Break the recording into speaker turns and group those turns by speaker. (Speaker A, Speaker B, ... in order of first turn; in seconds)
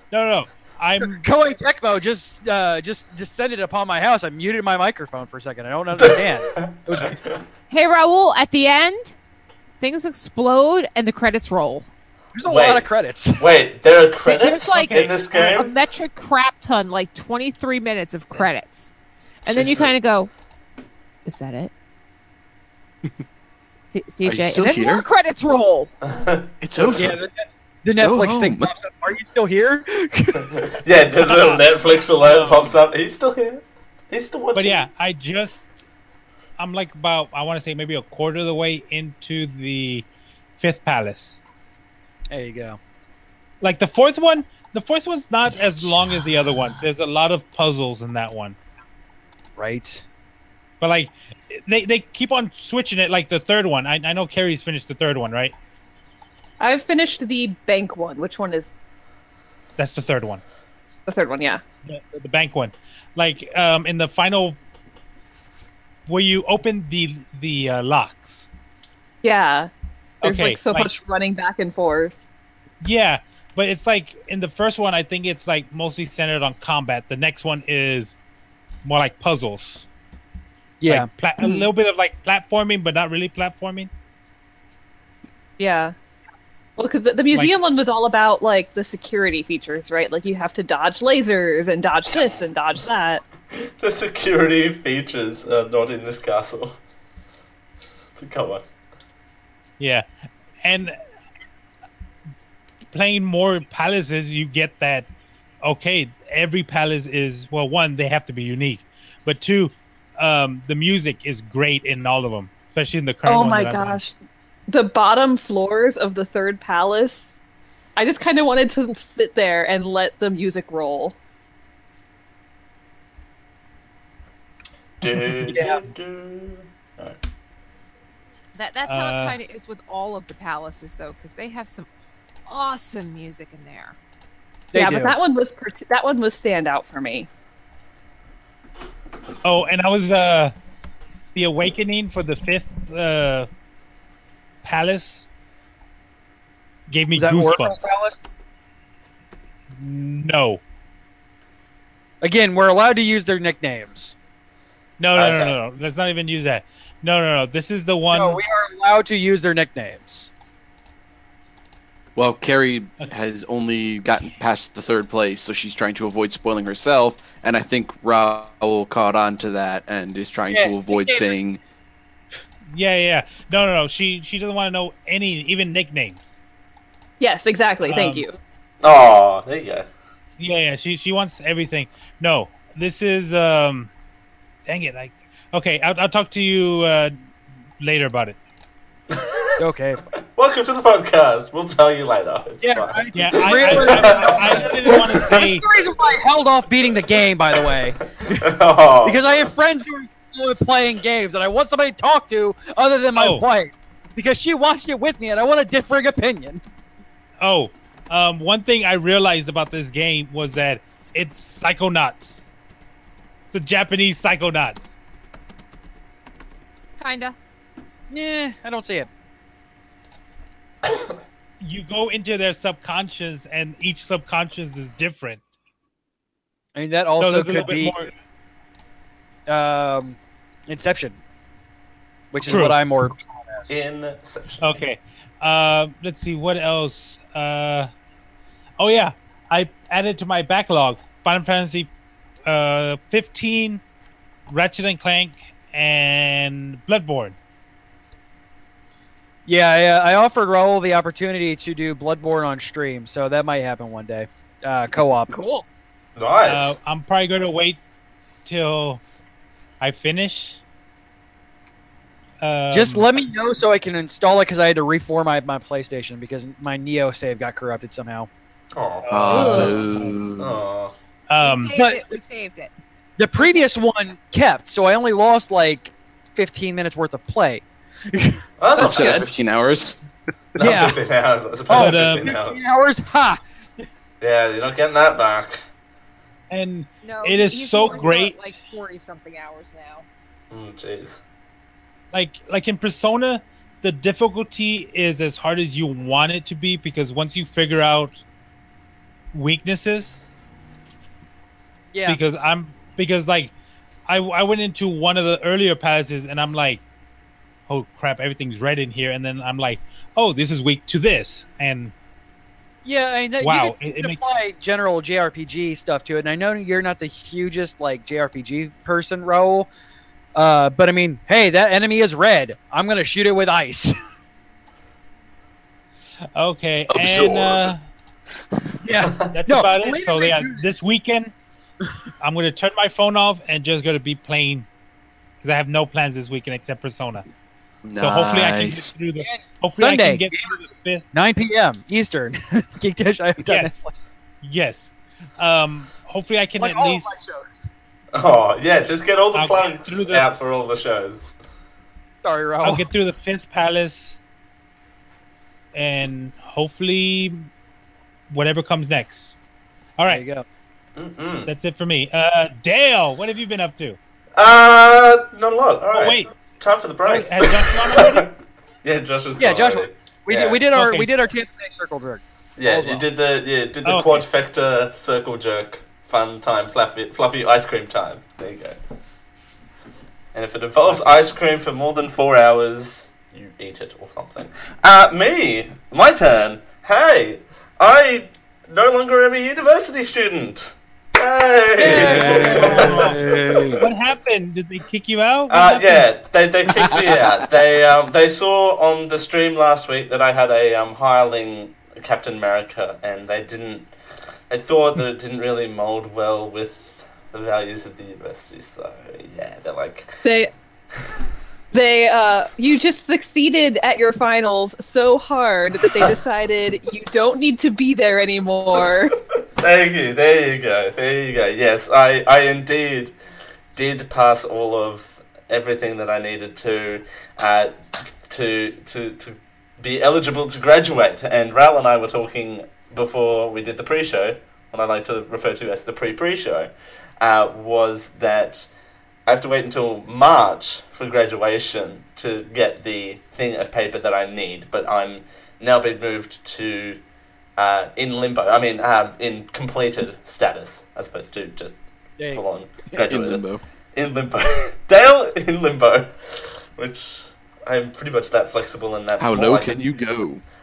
Speaker A: 0.1-1.2, 14.8-15.5, 32.3-32.5, 34.5-35.7, 36.6-40.0, 40.6-41.4, 43.6-48.5, 50.8-55.5, 59.8-60.4, 61.9-64.6, 66.1-68.5, 70.2-70.9, 72.8-78.1, 78.8-79.9, 80.9-83.9, 99.8-100.0, 100.6-101.0, 102.9-105.1, 105.6-114.0, 128.9-129.4, 139.4-140.5, 141.3-143.5, 144.6-145.3, 146.9-147.9, 149.8-150.6, 155.0-158.4, 172.7-176.4, 177.9-178.2, 180.4-183.9, 184.7-187.1, 187.8-188.4, 193.1-195.6, 203.2-203.4, 207.4-212.4, 213.5-215.0, 221.6-225.4, 227.2-228.1, 232.4-232.8, 234.6-237.9, 238.8-241.9, 242.5-243.8, 244.5-247.4, 256.4-257.8, 258.4-259.0, 259.8-260.6, 262.4-263.1, 269.1-270.1, 271.3-271.8, 281.7-282.3, 286.5-288.4, 292.1-298.1, 299.3-300.2, 302.1-303.5, 304.1-306.8, 307.7-311.9, 313.4-314.2, 326.4-327.8, 329.3-331.3, 332.2-334.6, 335.4-337.2, 338.0-341.0, 343.5-343.8, 344.4-347.1, 349.3-350.2, 352.6-354.2, 355.7-357.5, 358.3-359.3, 360.0-360.2, 361.4-364.0, 365.9-366.3, 367.1-368.3, 370.7-371.2, 373.8-374.2, 392.8-393.1, 393.8-396.1
Speaker B: 1.0-7.2, 12.3-13.4, 26.9-30.6, 42.3-42.8, 49.6-50.0, 80.8-81.1, 125.5-125.8, 134.7-135.2, 147.1-148.2, 152.2-154.1, 158.1-160.3, 170.5-171.3, 189.6-190.0, 192.6-206.6, 218.1-219.1, 226.8-228.0, 229.5-230.2, 230.7-231.2, 232.3-233.7, 249.5-255.3, 262.7-268.3, 271.7-272.0, 273.2-278.4, 280.6-281.0, 281.7-283.9, 301.9-302.2, 312.8-319.7, 320.3-323.9, 328.8-330.7, 339.2-340.4, 341.1-344.0, 346.6-347.7, 352.2-352.9, 360.1-360.4, 369.4-373.1, 391.8-393.1
Speaker C: 6.0-7.4, 12.4-15.7, 26.0-26.5, 30.6-34.9, 93.8-96.8, 98.2-98.6, 125.0-127.2, 155.1-155.6, 178.8-179.9, 189.1-189.4, 190.3-195.1, 198.3-199.2, 233.7-234.8, 256.1-256.8, 268.7-270.9, 278.6-279.3, 280.6-282.6, 284.2-285.6, 290.5-291.2, 348.1-351.3, 361.0-361.5, 364.4-368.3, 368.8-370.6, 372.6-378.8, 380.3-393.4, 395.5-403.9, 404.5-410.1, 419.6-423.1, 423.7-427.7, 428.3-438.7, 439.2-447.0, 447.6-451.8, 452.3-456.1, 456.8-459.9
Speaker D: 7.7-9.1, 9.8-11.9, 14.2-18.9, 19.4-20.3, 21.2-21.7, 23.9-25.9, 128.6-131.9, 132.5-133.9, 217.0-217.4, 271.4-272.7, 287.0-290.1
Speaker E: 19.5-19.9, 24.2-25.1, 26.6-27.2, 28.0-28.7, 162.2-171.6, 269.1-270.6, 278.8-280.1, 326.9-327.7, 337.8-338.9, 391.9-393.8, 452.9-453.6, 459.2-460.4
Speaker F: 56.6-58.7, 61.1-61.6, 69.2-69.7, 70.2-72.2, 81.4-81.7, 85.6-85.9, 86.8-93.2, 113.2-114.1, 114.7-117.3, 118.0-121.2, 134.7-137.3, 177.2-178.4, 255.3-255.6, 278.8-279.2, 410.2-410.5, 411.7-419.1